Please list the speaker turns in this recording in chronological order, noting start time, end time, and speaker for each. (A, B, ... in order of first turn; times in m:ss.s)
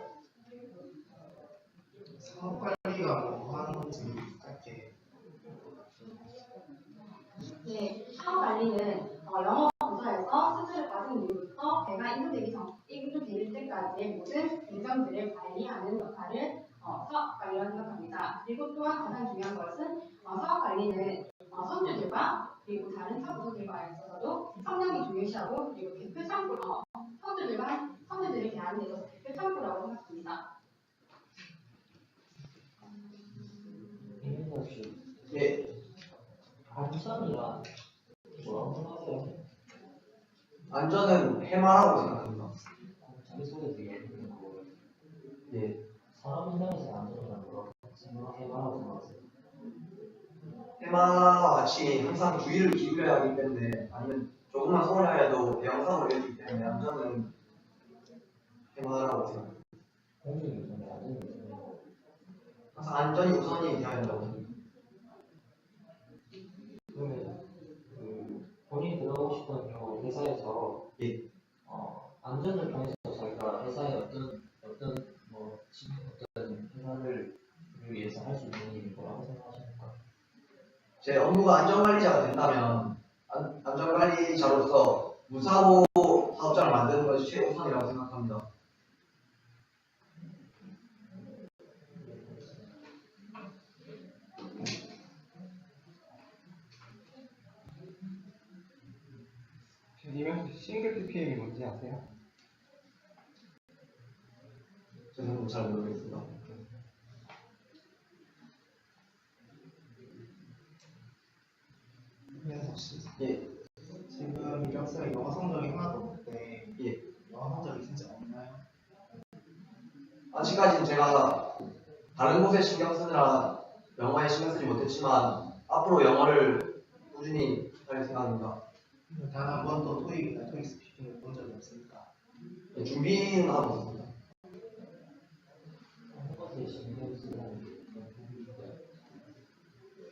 0:02.2-0:05.0 A
0:07.6-0:30.4 B
0:34.2-0:35.0 C
0:35.3-0:35.6 D
0:36.7-0:37.7 C
0:38.3-0:39.4 C
0:40.7-0:42.6 D
0:43.0-0:44.7 C
0:45.5-0:45.8 D
0:46.1-0:49.2 C
0:50.8-0:57.3 D
0:58.7-0:59.6 D
1:00.2-1:01.8 C
1:02.7-1:04.5 D
1:06.9-1:07.4 C
1:07.9-1:10.9 C
1:11.6-1:20.0 C
1:21.0-1:28.4 D
1:40.0-1:42.0 E
1:45.1-1:46.3 D
1:52.4-1:53.2 A
1:53.2-1:53.5 D
1:54.1-1:58.6 A
2:00.3-2:01.6 D
2:02.2-2:08.6 D
2:09.1-2:12.1 A
2:12.7-2:14.1 D
2:16.1-2:18.8 C